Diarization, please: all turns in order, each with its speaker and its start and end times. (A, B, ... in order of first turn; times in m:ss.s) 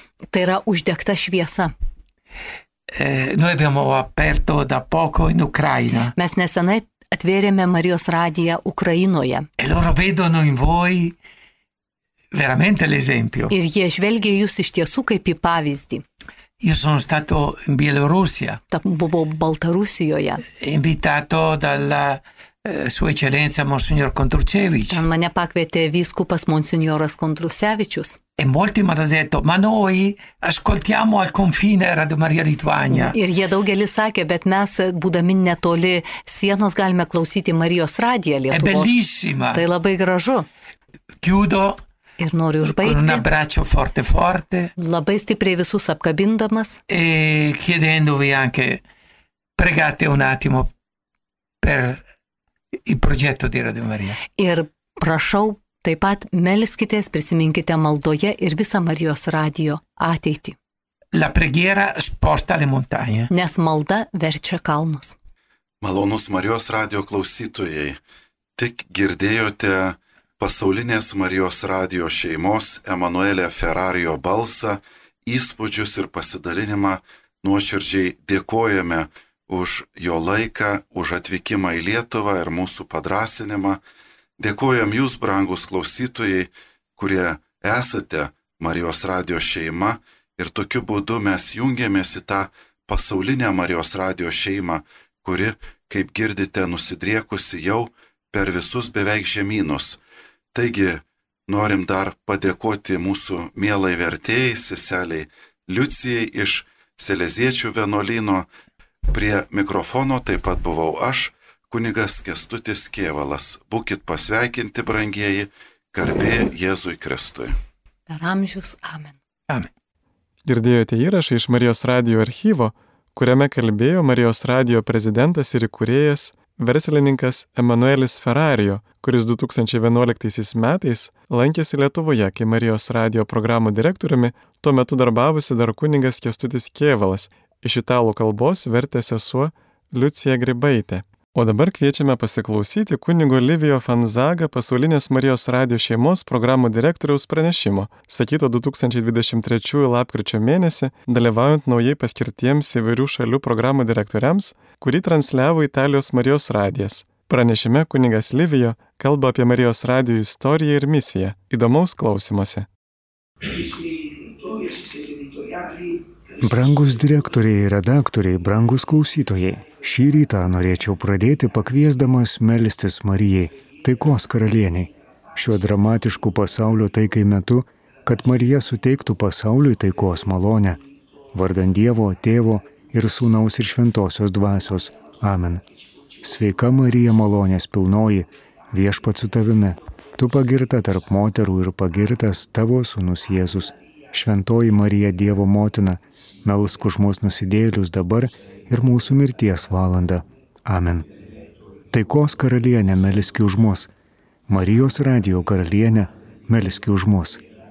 0:00.3-0:01.7 A
0:02.9-0:06.1 B
0:06.1-0:09.5 A
0:09.6-0:11.1 B
0:12.3-0:13.5 B
0:13.5-0:16.0 A
0:16.6-0:18.6 B
0:18.7-0:20.4 A
0:20.6-0:25.0 B
0:24.9-0:28.2 A
0:28.4-0:33.2 B
0:32.9-0:38.9 A
0:38.5-0:39.6 B
0:39.5-0:40.4 A
0:41.2-0:41.8 B
0:42.2-0:43.2 A
0:42.6-0:44.7 B
0:44.8-0:46.8 A
0:46.9-0:48.8 B
0:49.6-0:50.7 B
0:51.6-0:52.0 B
0:52.8-0:54.2 B
0:54.4-1:00.6 A
1:01.1-1:03.3 B
1:03.3-1:05.1 A
1:05.8-1:08.0 C
1:08.6-1:23.8 C
1:24.4-1:40.0 C
1:40.5-1:48.4 C
1:49.1-1:57.6 C
1:58.1-1:59.2 A
2:00.4-2:42.7 D
2:43.5-2:45.9 B
2:46.4-3:00.8 E
3:01.3-3:05.6 E
3:06.2-3:21.0 E
3:21.9-3:23.9 E
3:24.5-3:27.4 E